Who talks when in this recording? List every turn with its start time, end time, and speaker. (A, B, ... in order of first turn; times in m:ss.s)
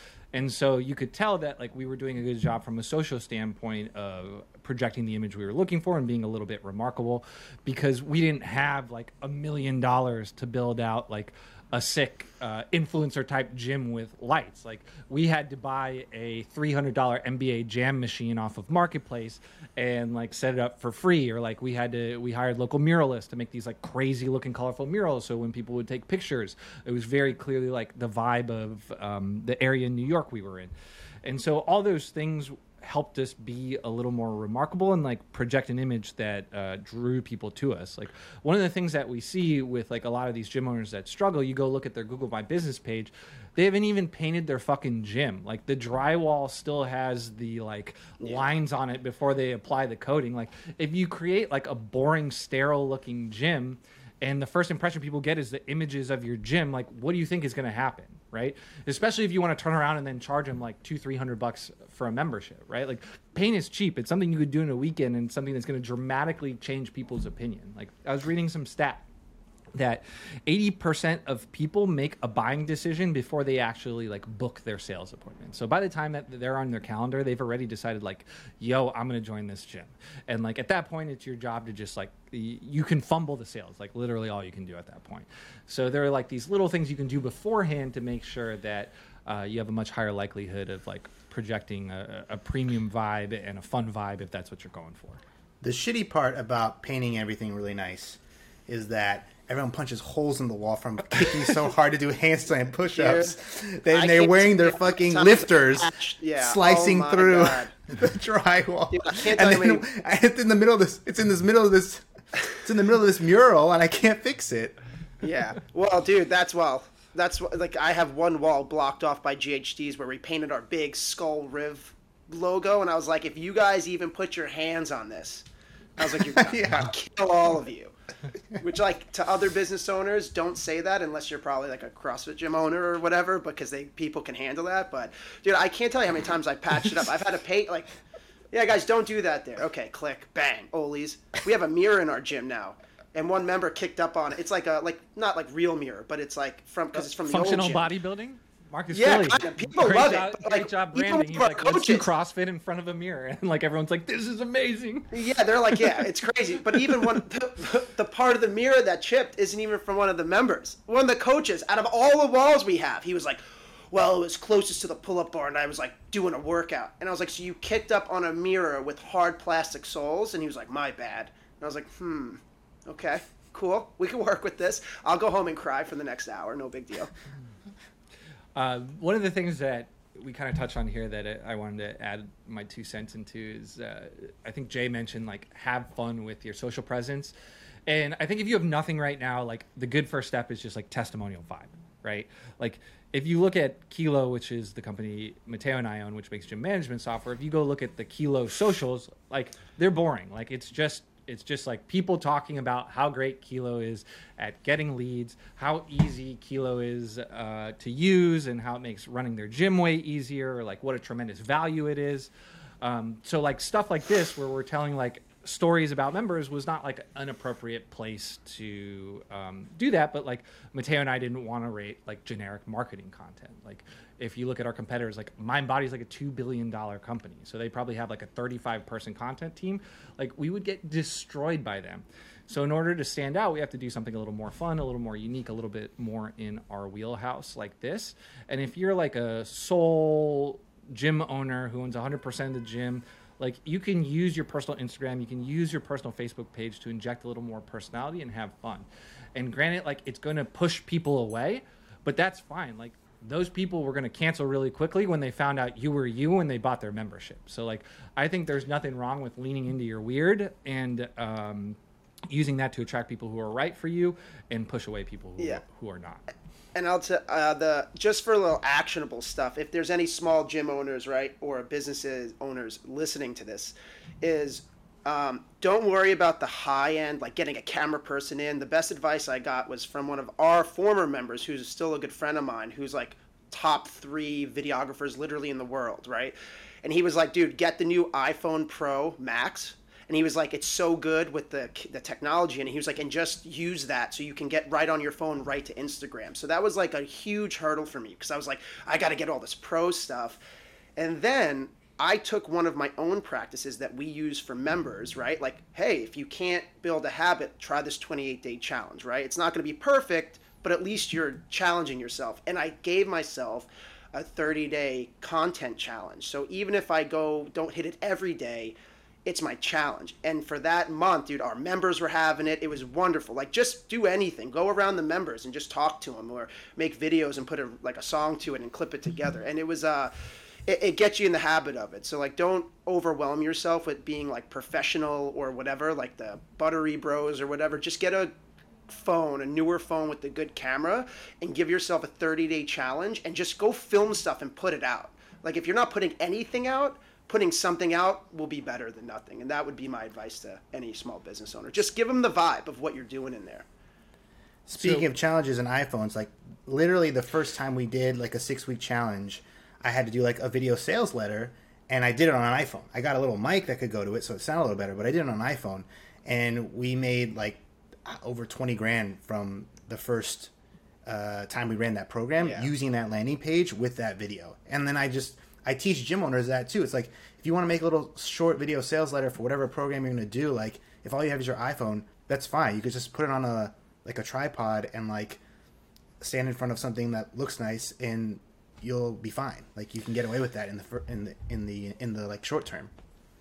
0:00.3-0:30.7 A
0:31.2-1:09.0 A
1:09.7-1:35.2 A
1:35.6-1:52.0 B
1:42.9-1:43.4 C
1:43.9-1:47.7 C
1:48.9-1:49.9 C
1:52.6-1:54.8 B
1:55.2-2:05.4 C
2:06.0-2:07.9 C
2:06.0-2:06.9 B
2:08.5-2:17.9 C
2:18.5-2:27.9 C
2:27.0-2:35.1 A
2:28.9-2:32.1 C
2:35.1-2:43.4 C
2:43.9-2:57.1 C
2:58.6-3:07.3 A
3:07.9-4:21.8 A
4:22.3-4:26.2 A
4:26.7-5:00.4 C
5:01.0-5:30.1 C
5:30.7-5:38.3 C
5:38.9-5:53.6 C
5:54.6-6:10.5 B
5:54.7-5:55.1 A
6:11.0-6:25.4 B
6:12.4-6:12.7 C
6:26.2-6:32.9 B